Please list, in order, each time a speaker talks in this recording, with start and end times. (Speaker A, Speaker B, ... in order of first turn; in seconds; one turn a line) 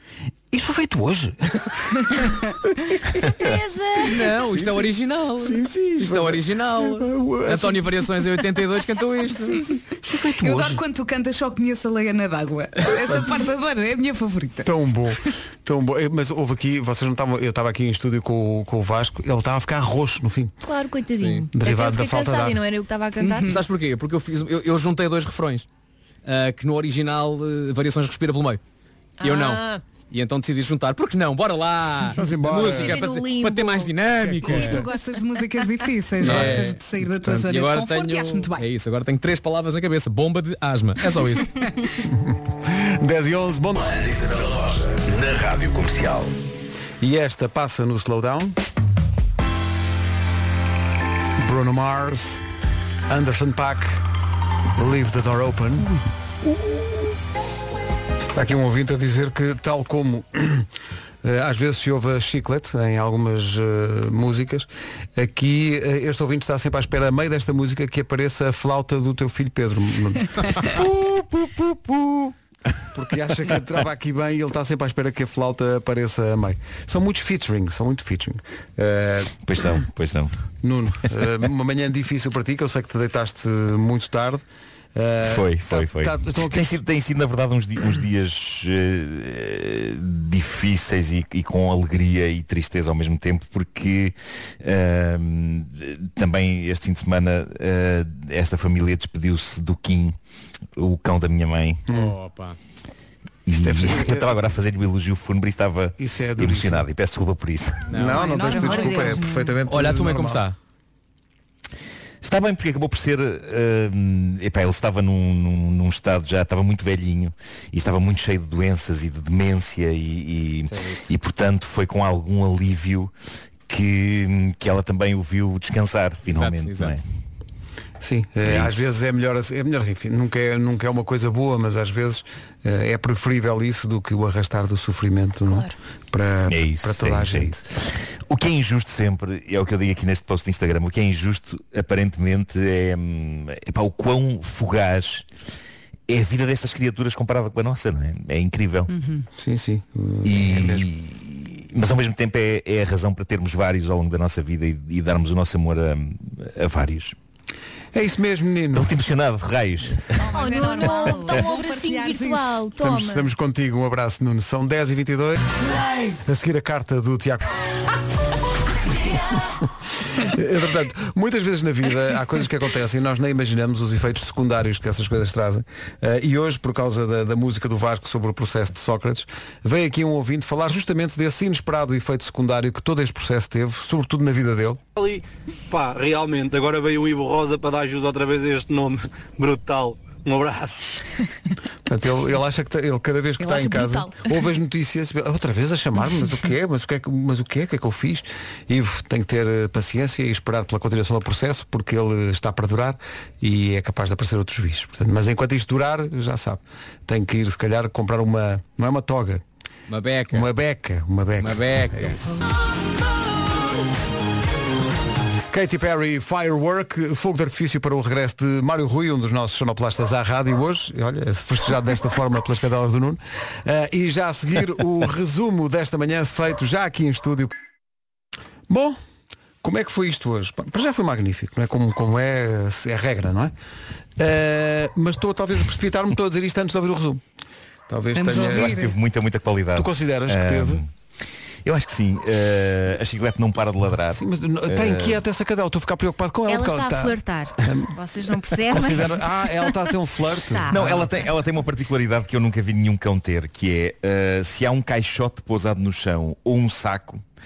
Speaker A: 0.5-3.2
Speaker B: 3.2-4.4
Speaker C: 4.1-9.6
Speaker A: 4.4-8.0
Speaker A: 10.0-10.8
Speaker D: 10.4-14.7
Speaker A: 14.6-20.5
Speaker B: 20.6-23.6
Speaker C: 21.2-21.5
Speaker A: 21.5-22.6
Speaker D: 23.2-23.6
Speaker C: 23.5-25.7
Speaker C: 26.3-28.6
Speaker B: 29.2-29.8
Speaker C: 29.2-34.8
Speaker A: 32.1-33.1
Speaker B: 32.6-34.6
Speaker A: 34.1-34.8
Speaker D: 34.4-38.7
Speaker A: 36.2-36.7
Speaker C: 36.2-36.8
Speaker C: 37.4-41.5
Speaker A: 42.0-43.8
Speaker E: 43.8-46.3
Speaker A: 47.0-48.5
Speaker A: 51.4-52.4
Speaker A: 53.1-54.0
Speaker A: 54.8-56.0
Speaker A: 58.3-60.7
Speaker A: 61.2-72.3
Speaker A: 72.9-79.4
Speaker F: 79.4-80.3
Speaker A: 80.6-84.4
Speaker A: 85.0-86.7
Speaker F: 85.2-100.2
Speaker F: 100.8-101.9
Speaker A: 101.9-102.2
Speaker C: 102.0-102.6
Speaker F: 103.5-108.0
Speaker A: 103.6-104.4
Speaker A: 106.0-106.9
Speaker C: 107.9-108.2
Speaker A: 107.9-110.5
Speaker D: 108.1-109.5
Speaker B: 108.2-109.3
Speaker C: 109.7-110.5
Speaker F: 112.2-123.1
Speaker C: 120.7-121.1
Speaker F: 123.7-127.0
Speaker C: 126.3-127.0
Speaker A: 128.0-137.6
Speaker F: 128.4-128.9
Speaker F: 136.5-145.3
Speaker F: 146.1-148.9
Speaker D: 148.9-149.3
Speaker A: 149.4-150.9
Speaker F: 150.2-157.1
Speaker A: 157.9-158.9
Speaker F: 158.7-160.3
Speaker D: 160.2-162.4
Speaker B: 160.2-163.3
Speaker A: 162.8-165.4
Speaker A: 166.1-167.5
Speaker A: 170.2-184.8
Speaker G: 184.9-191.0
Speaker A: 191.9-209.4
Speaker D: 193.4-194.4
Speaker C: 209.9-210.5
Speaker A: 210.3-212.4
Speaker C: 211.4-212.2
Speaker A: 215.5-227.5
Speaker A: 228.7-229.0
Speaker A: 229.6-233.5
Speaker A: 234.2-237.2
Speaker A: 237.9-238.9
Speaker D: 238.1-238.9
Speaker F: 238.3-240.9
Speaker A: 239.8-240.8
Speaker F: 241.6-245.2
Speaker A: 244.2-247.9
Speaker B: 246.4-249.8
Speaker A: 248.6-251.1
Speaker B: 250.3-250.9
Speaker F: 250.7-257.2